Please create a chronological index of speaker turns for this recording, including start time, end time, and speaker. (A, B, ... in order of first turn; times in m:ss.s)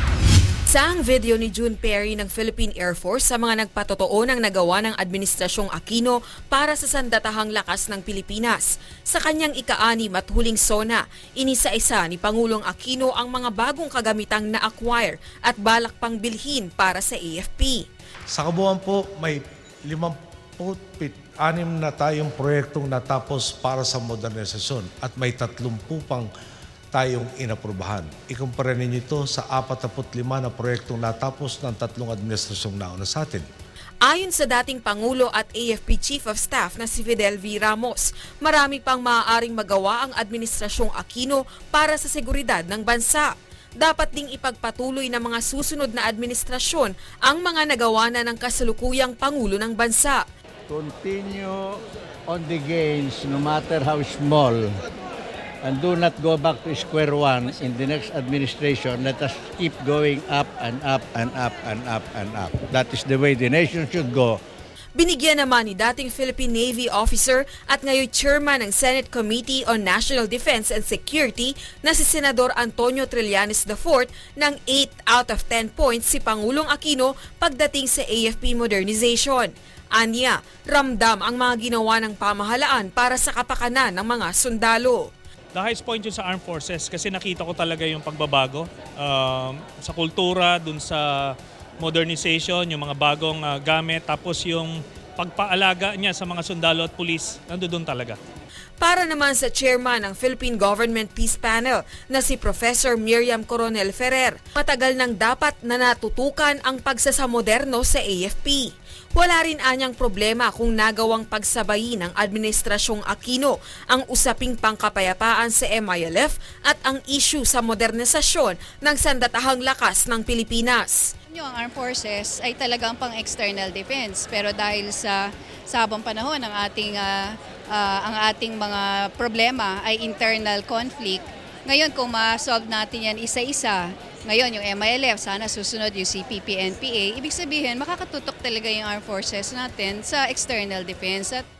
0:00.7-0:17.8 A
0:18.3-0:26.3 B
0:26.9-0:33.4 B
0:34.0-0:50.2 A
0:50.7-0:54.7 C
0:55.6-1:04.4 C
1:05.0-1:25.0 A
1:25.6-1:31.1 D
1:31.8-1:38.2 D
1:38.8-2:01.1 A
2:01.3-2:21.4 E